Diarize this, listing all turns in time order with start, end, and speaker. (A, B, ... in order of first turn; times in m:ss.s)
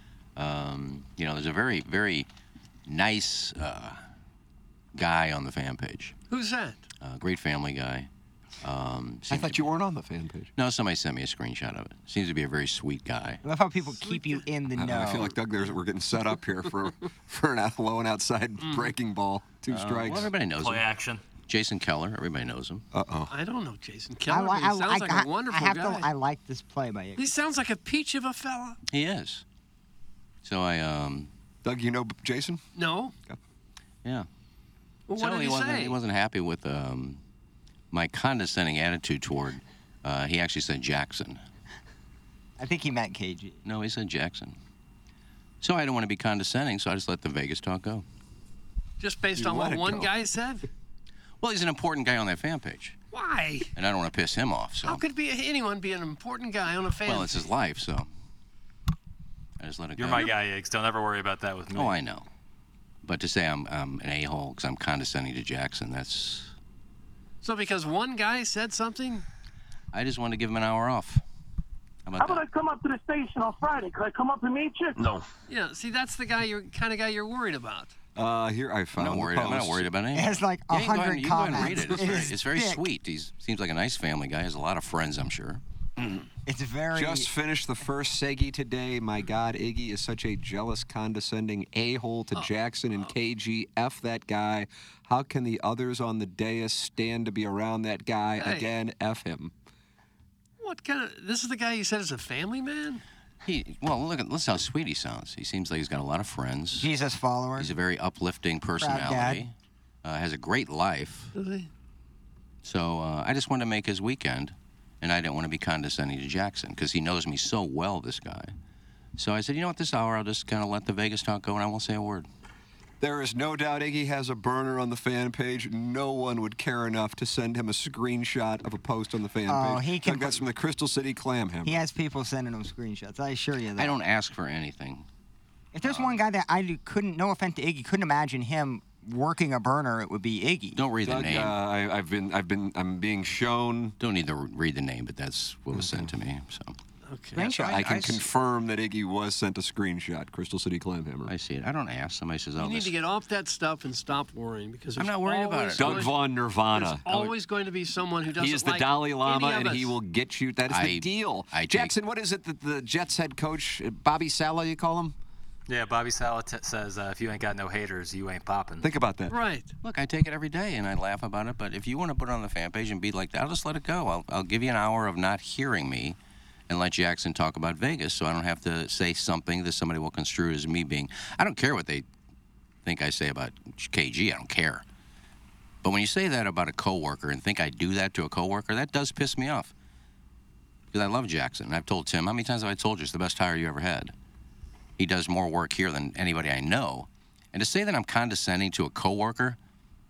0:00.4-0:02.3 A
0:02.9-0:04.0 A
0:05.0-0:06.2 A
0:06.3-0:06.9 B
0:07.0-0:08.1 A
0:08.6-0:09.7 A
0:09.3-0:10.5 C
0:10.6-0:13.4 A
0:13.4-0:15.4 D
0:14.0-0:14.4 B
0:14.8-0:20.3 C
0:18.6-0:18.9 B
0:19.7-0:20.9 A
0:20.6-0:21.2 E
0:21.5-0:22.8 A
0:22.9-0:23.3 C
0:23.3-0:26.1 B
0:24.3-0:27.3 D
0:27.2-0:28.8 B
0:28.9-0:29.4 A
0:30.4-0:31.3 A
0:31.6-0:32.6 C
0:32.8-0:33.2 B
0:35.1-0:36.0 B
0:35.1-0:37.2 A
0:37.9-0:41.4 A
0:42.6-0:43.6 D
0:43.6-0:44.6 A
0:45.6-0:48.0 A
0:49.0-0:50.7 B
0:49.4-0:50.1 C
0:51.4-0:53.0 A
0:53.1-0:53.7 B
0:53.8-0:55.0 A
0:54.8-0:57.5 B
0:57.0-0:58.1 A
0:59.6-1:00.3 A
1:00.0-1:02.0 E
1:01.7-1:02.3 A
1:03.0-1:06.5 A
1:07.4-1:09.2 B
1:09.9-1:11.2 A
1:12.1-1:12.4 A
1:12.2-1:14.9 F
1:15.5-1:17.9 B
1:18.2-1:19.9 C
1:19.0-1:25.6 A
1:20.1-1:22.8 D
1:26.0-1:26.3 C
1:26.5-1:27.3 D
1:26.9-1:39.5 C
1:38.4-1:38.7 B
1:40.6-1:43.0 B
1:43.4-1:46.9 A
1:46.8-1:47.7 D
1:47.6-1:49.5 A
1:48.8-1:49.4 D
1:50.0-1:51.3 A
1:51.3-1:51.7 B
1:52.6-1:58.5 A
1:59.2-2:02.3 A
2:03.0-2:11.8 C
2:09.5-2:10.4 D
2:11.6-2:14.0 D
2:13.8-2:15.1 A
2:15.7-2:20.8 D
2:20.8-2:21.6 A
2:21.0-2:24.0 C
2:24.0-2:26.8 A
2:25.7-2:26.1 C
2:27.1-2:27.4 B
2:27.4-2:28.2 D
2:27.4-2:28.2 A
2:27.4-2:31.3 C
2:31.3-2:32.9 A
2:32.6-2:36.2 B
2:35.0-2:36.2 A
2:35.8-2:37.1 C
2:36.7-2:40.0 B
2:38.4-2:45.2 C
2:40.7-2:41.9 A
2:45.7-2:48.9 E
2:48.8-2:49.4 C
2:49.3-2:49.7 B
2:49.8-2:56.2 A
2:56.7-3:02.1 A
3:02.8-3:04.8 A
3:05.8-3:09.7 A
3:10.9-3:14.1 A
3:15.0-3:19.6 A